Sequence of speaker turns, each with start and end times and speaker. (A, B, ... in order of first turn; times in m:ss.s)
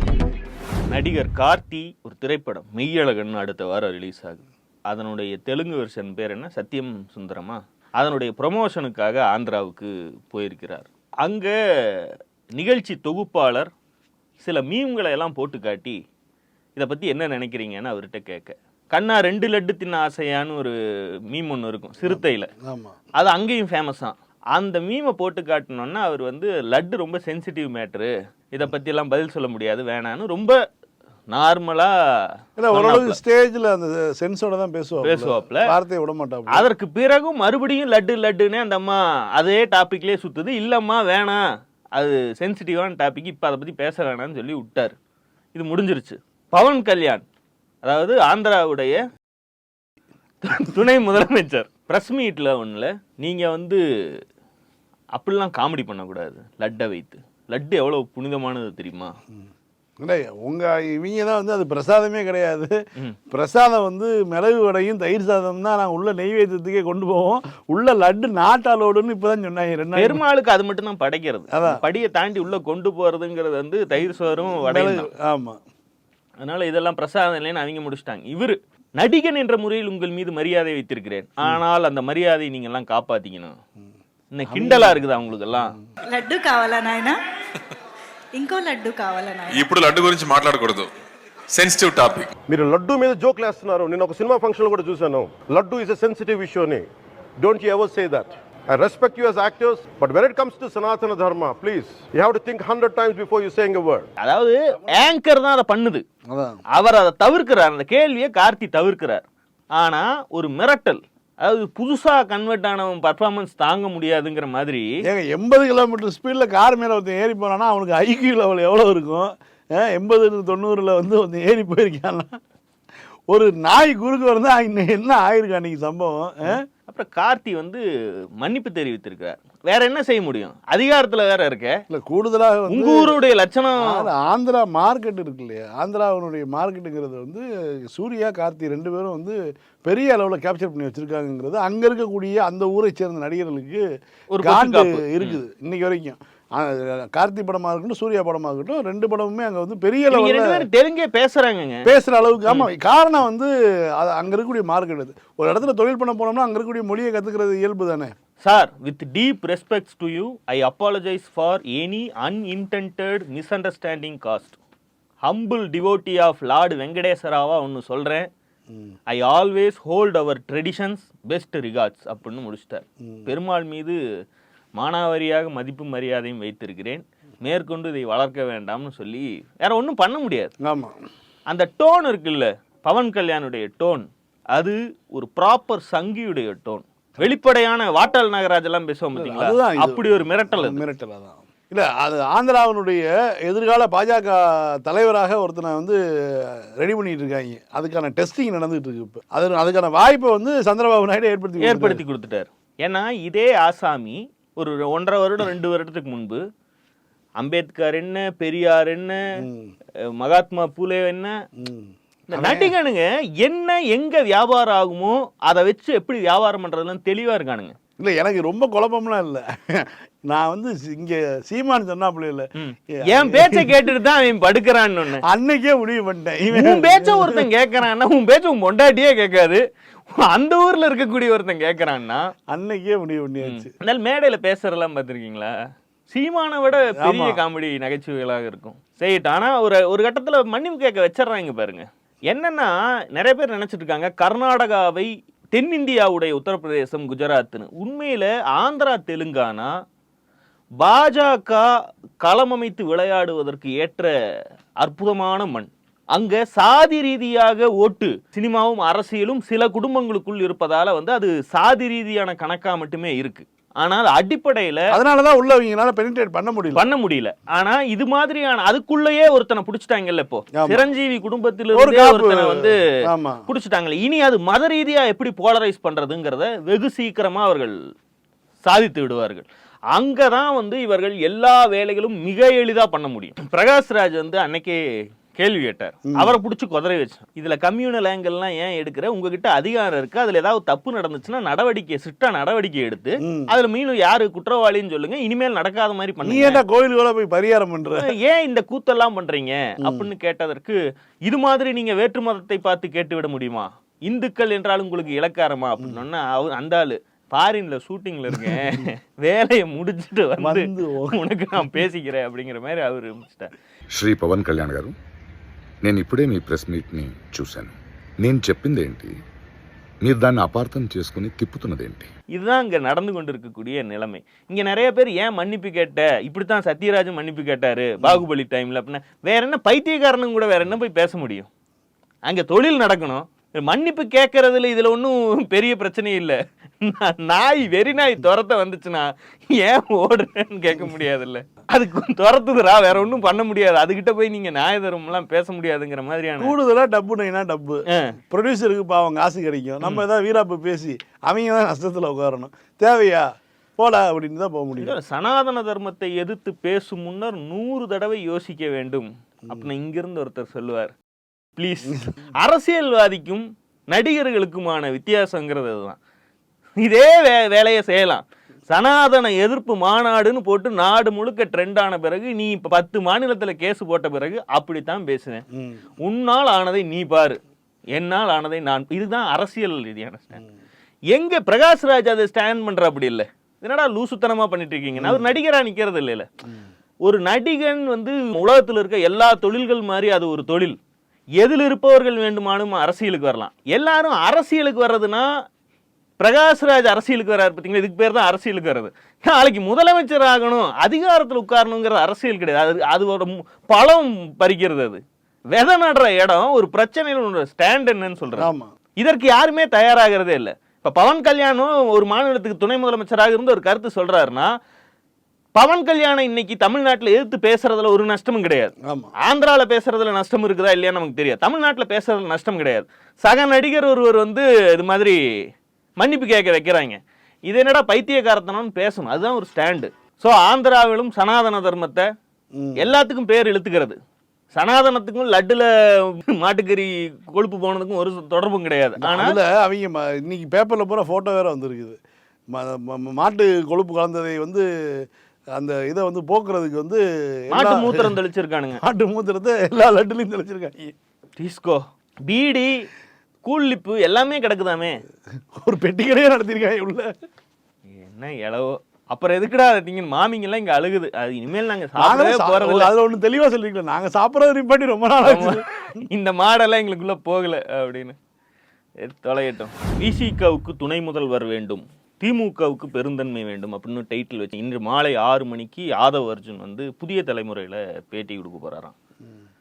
0:00.9-0:13.7 A
0:14.4-0:16.0 A
0:16.8-0:20.7 A
0:21.3-0:22.5 A
0:22.0-0:23.0 B
0:23.2-0:30.6 A
0:31.3-0:31.9 A
0:32.6-0:36.7 B
0:32.7-0:33.2 A
0:35.0-0:35.7 A
0:36.5-0:41.4 A
0:42.0-0:45.0 A
0:45.5-0:47.2 A
0:47.8-0:49.0 A
0:50.4-0:53.8 A
0:55.1-0:59.1 A
1:00.0-1:02.7 B
1:03.3-1:10.2 B
1:09.9-1:15.1 A
1:11.5-1:11.8 B
1:14.6-1:15.6 B
1:16.4-1:23.6 A
1:24.3-1:25.7 A
1:24.5-1:25.0 B
1:26.1-1:27.2 C
1:28.3-1:29.6 C
1:29.5-1:30.9 D
1:31.5-1:32.3 D
1:32.5-1:36.9 E
1:37.4-1:44.1 E
1:44.2-1:46.0 A
1:46.3-1:46.6 B
1:46.7-1:49.2 A
1:49.7-1:54.9 A
1:55.0-2:02.4 B
2:03.3-2:06.6 B
2:06.5-2:07.8 A
2:08.4-2:11.8 A
2:11.9-2:13.2 B
2:12.7-2:14.1 A
2:13.8-2:23.8 B
2:24.3-2:25.4 A
2:24.4-2:30.7 B
2:30.1-2:31.9 A
2:31.8-2:38.1 B
2:38.4-2:44.6 A
2:45.2-2:48.3 A
2:48.7-2:48.9 B
2:49.1-2:54.0 A
2:53.0-2:53.3 B
2:54.8-3:00.5 A
3:00.6-3:01.0 B
3:01.5-3:10.8 A
3:09.1-3:22.0 B
3:21.6-3:26.4 A
3:27.4-3:29.3 A
3:29.4-3:29.7 B
3:30.1-3:31.3 A
3:31.6-3:32.7 B
3:32.3-3:37.8 A
3:38.0-3:43.9 B
3:42.6-3:45.2 A
3:45.2-3:47.4 B
3:46.5-3:49.6 A
3:50.2-3:52.3 A
3:52.5-3:53.7 B
3:53.4-3:55.5 A
3:56.1-4:09.7 A
3:57.0-3:57.4 B
4:10.8-4:11.7 A
4:12.2-4:14.1 A
4:14.8-4:24.9 A
4:24.9-4:26.8 B
4:26.7-4:32.8 A
4:30.5-4:30.8 B
4:31.7-4:33.4 B
4:33.5-4:37.8 A
4:38.6-4:44.8 A
4:45.4-4:56.6 A
4:46.1-4:46.3 B
4:53.2-4:53.5 B
4:56.2-4:58.1 B
4:58.0-5:13.5 A
4:59.8-5:00.1 B
5:08.3-5:08.9 B
5:10.4-5:11.2 B
5:13.9-5:15.0 F
5:15.8-5:19.2 F
5:20.0-5:22.1 F
5:22.3-5:31.5 A
5:32.3-5:46.5 A
5:46.4-5:55.0 B
5:54.8-6:00.9 A
6:01.6-6:06.0 A
6:06.8-6:15.4 A
6:15.5-6:15.8 B
6:16.0-6:17.4 A
6:17.9-6:20.4 A
6:21.1-6:26.3 A
6:25.0-6:25.3 B
6:27.0-6:30.8 A
6:31.4-6:35.3 A
6:36.2-6:45.0 A
6:45.5-6:54.5 A
6:48.4-6:48.7 B
6:55.6-6:58.7 A
6:58.8-6:59.1 B
6:59.2-7:05.2 A
7:06.0-7:12.1 A
7:12.5-7:12.9 B
7:12.8-7:14.0 A
7:14.6-7:19.4 A
7:19.0-7:22.0 B
7:22.5-7:28.1 B
7:27.5-7:28.8 A
7:28.8-7:30.9 B
7:31.4-7:32.8 A
7:33.4-7:35.0 A
7:35.5-7:37.1 B
7:37.9-7:42.9 A
7:42.0-7:46.0 B
7:45.2-7:48.2 A
7:49.0-7:58.9 A